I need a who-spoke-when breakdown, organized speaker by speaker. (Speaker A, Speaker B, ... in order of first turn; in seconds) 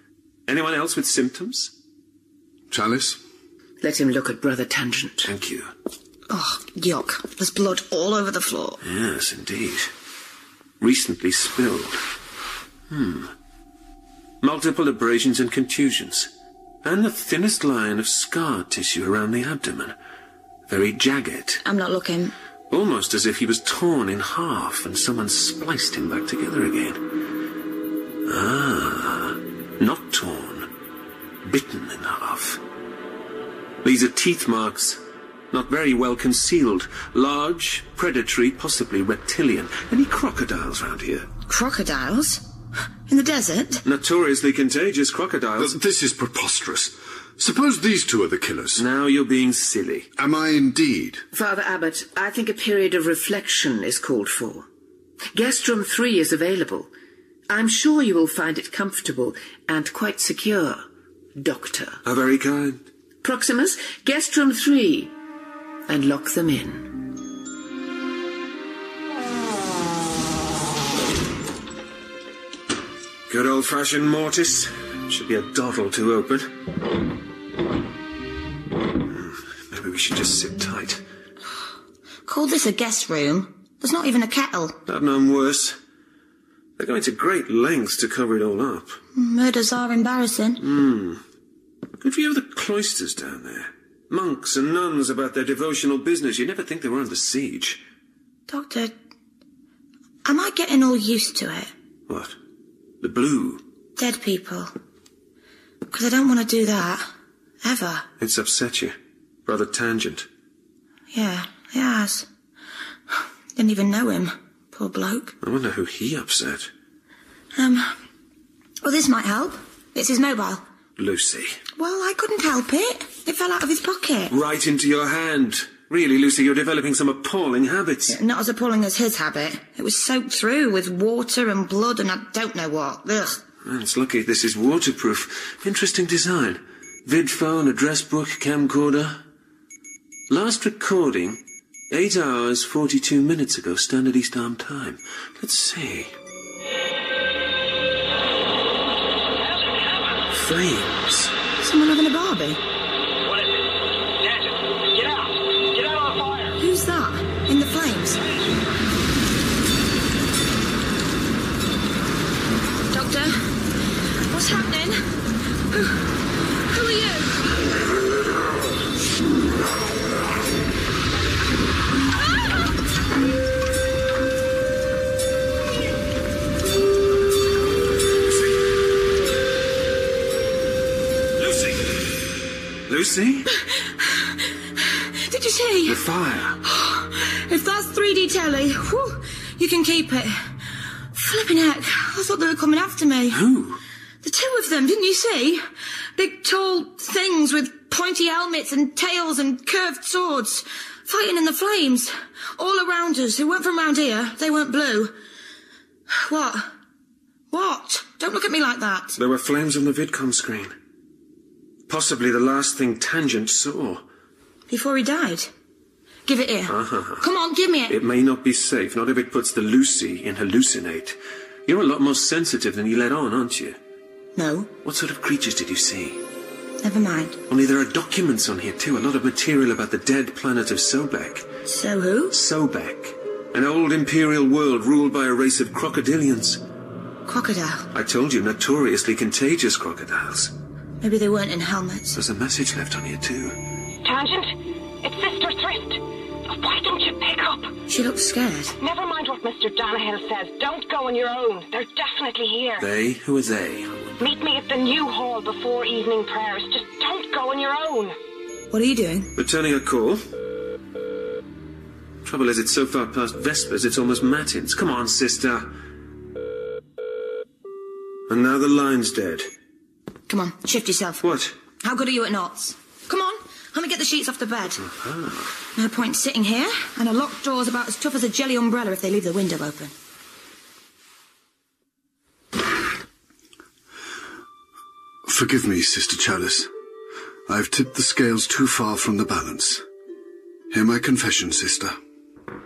Speaker A: 0.5-1.7, 5.2-5.7, 8.8-9.9, 10.8-12.0, 12.9-13.3, 14.4-16.3, 16.8-19.9, 20.7-21.6, 22.7-27.0, 28.2-30.7, 31.4-32.6, 33.8-35.0, 35.5-41.3, 43.8-45.7, 48.8-50.1, 62.0-62.8, 73.3-76.5, 79.1-81.0, 84.9-85.8, 86.8-89.0, 90.6-91.2, 92.0-97.8, 102.1-102.3, 103.0-103.6, 108.2-108.9, 109.5-110.2, 115.4-116.7, 121.0-121.6, 124.3-128.2, 133.6-139.2, 140.3-146.1, 150.3-151.3, 181.4-181.8, 182.9-183.5, 185.8-186.6, 193.3-193.8, 209.2-210.7, 211.9-214.0, 216.7-217.2, 217.9-223.8, 224.8-226.2, 227.5-231.4, 232.3-236.6, 237.9-240.5, 242.1-243.6, 252.8-254.1, 259.4-260.2, 262.2-265.7, 268.3-269.5, 271.2-271.5, 274.8-275.5
Speaker B: 2.7-3.2, 45.6-48.8, 50.2-51.2, 285.2-286.7, 287.5-289.8, 290.7-291.9
Speaker C: 3.8-5.3, 51.3-54.7, 55.3-56.9, 57.5-60.8, 61.4-62.0, 63.2-65.1, 65.9-67.0
Speaker D: 6.3-8.8, 21.6-22.3, 41.5-42.4, 43.1-43.8, 82.2-84.8, 89.1-90.6, 98.5-98.9, 100.2-101.7, 104.0-104.7, 105.9-107.1, 107.6-108.0, 111.1-112.3, 113.1-115.3, 117.5-117.9, 118.8-120.6, 121.8-124.3, 128.1-133.4, 151.6-152.6, 156.6-158.2, 162.9-163.3, 164.3-165.0, 165.7-166.1, 166.7-167.4, 185.2-186.0, 186.6-190.3, 191.1-193.4, 194.2-195.6, 196.2-205.1, 206.1-206.7, 207.5-209.2, 214.7-215.5, 216.3-218.0, 224.3-224.7, 226.8-227.4, 231.7-232.3, 237.3-237.9, 241.0-242.2, 247.9-248.8, 258.7-259.3, 270.3-271.2, 271.8-274.8, 275.8-279.9
Speaker E: 149.4-150.2, 153.2-156.6
Speaker F: 244.0-247.7, 248.8-252.8, 254.2-258.1